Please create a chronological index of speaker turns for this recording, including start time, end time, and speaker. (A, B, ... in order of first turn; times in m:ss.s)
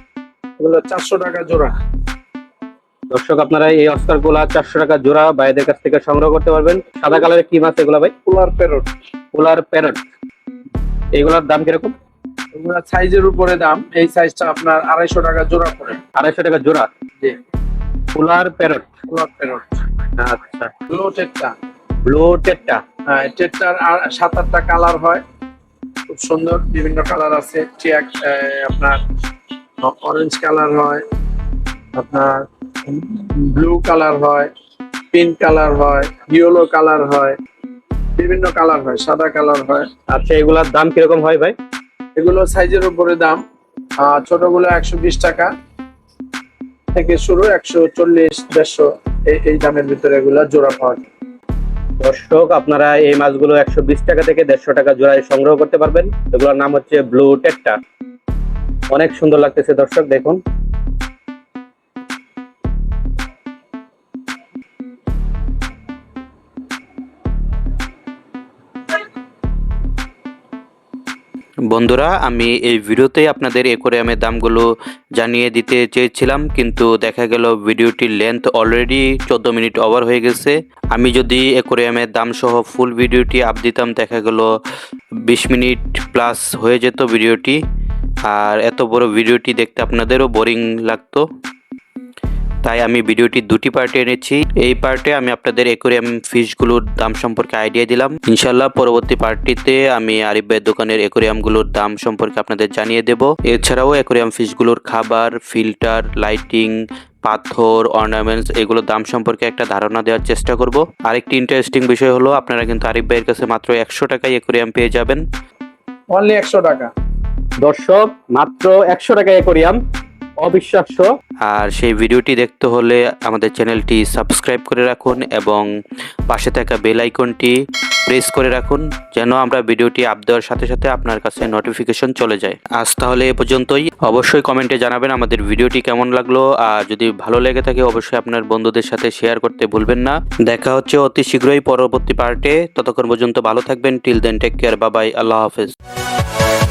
0:00.6-0:01.7 A
0:03.1-0:08.1 B
0:08.2-0:08.9 A
0:09.3-0:10.0 B
0:11.2-0:11.9 B
0:12.5-0:16.0 A
0:16.1-0:16.9 B
0:18.1-0:18.9 B
0:19.1-0:19.8 A
0:20.2-0:20.7 B
0:20.9-0:21.5 A
0:22.0-0:22.8 B
0:23.1-0:25.2 A
0:26.1-0:29.0 A
0:29.8-0:31.0 A
0:32.0-0:34.5 A
0:35.1-0:37.4 A
0:38.2-0:39.9 A
0:40.1-0:41.6 B
0:42.2-0:43.4 A
0:44.0-0:45.5 A
0:46.9-0:51.1 A
0:52.0-0:57.8 B
0:58.9-1:00.4 B
1:11.7-1:24.5 C
1:25.3-1:27.6 C
1:28.3-1:31.2 C
1:32.6-1:55.2 C
1:56.1-1:56.9 A
1:57.6-1:59.8 B
2:00.4-2:01.1 B
2:01.4-2:05.7 C
2:06.3-2:07.6 C
2:08.1-2:25.7 C